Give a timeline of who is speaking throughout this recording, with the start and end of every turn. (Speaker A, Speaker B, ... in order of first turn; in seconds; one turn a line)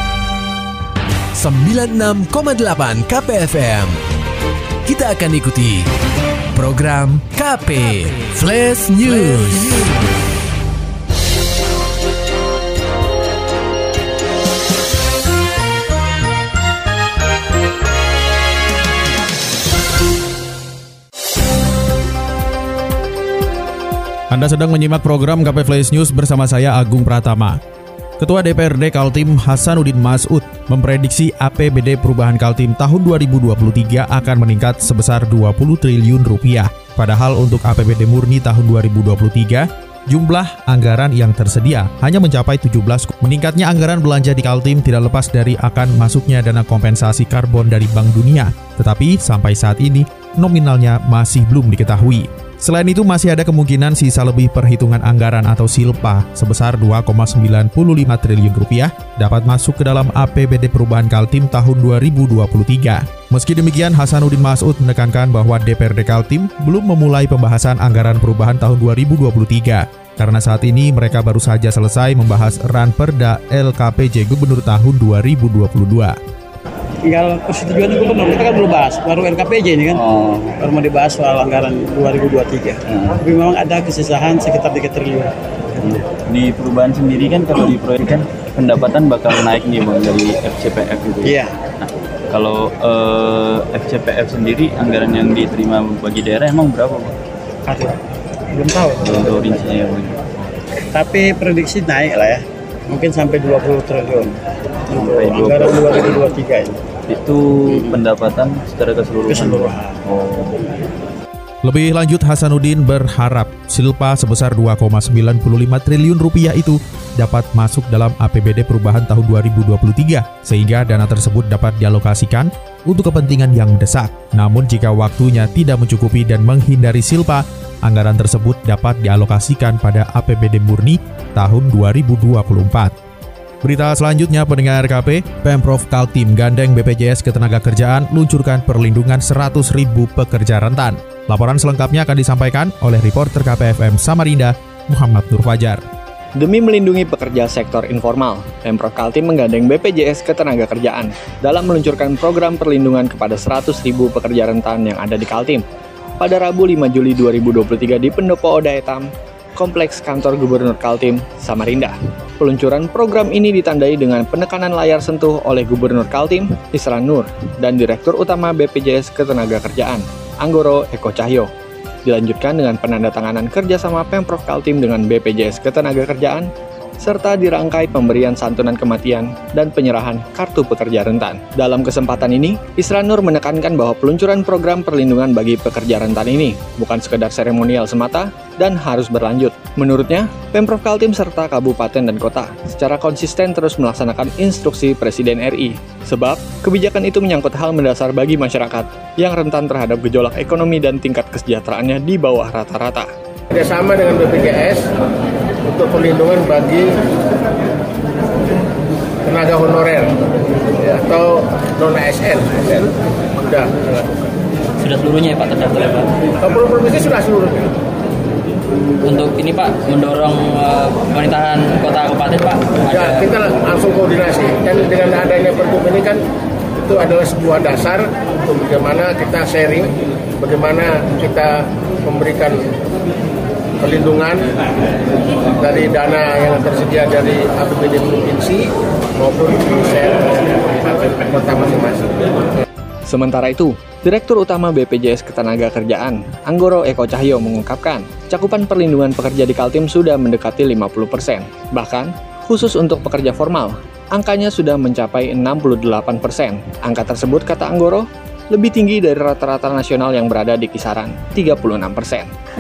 Speaker A: 1.4-4.0
Speaker A: 4.8-5.9
Speaker A: 6.5-9.8
Speaker B: 24.3-27.6
Speaker B: 28.2-76.2
Speaker C: 77.1-80.1
Speaker C: 80.6-86.0
Speaker D: 86.3-97.2
Speaker C: 91.2-91.5
Speaker C: 97.7-98.0
Speaker C: 98.5-99.7
Speaker D: 99.1-100.2
Speaker C: 100.9-104.3
Speaker C: 104.9-106.8
Speaker D: 104.9-106.2
Speaker D: 107.1-110.5
Speaker C: 107.7-108.0
Speaker C: 109.2-110.0
Speaker B: 111.6-132.9
Speaker B: 133.6-145.8
Speaker E: 146.4-155.6
Speaker E: 156.2-171.5
Speaker E: 172.1-176.5
Speaker E: 177.0-203.1
Speaker F: 203.5-204.9
Speaker F: 205.7-206.9
Speaker F: 209.3-210.1
Speaker F: 210.8-214.2
Speaker G: 214.8-216.1
Speaker F: 216.4-217.7
Speaker G: 219.0-223.3
Speaker F: 222.9-226.2
Speaker F: 226.8-229.9
Speaker F: 230.4-232.6
Speaker F: 233.8-234.4
Speaker F: 235.6-242.1
Speaker E: 243.1-262.3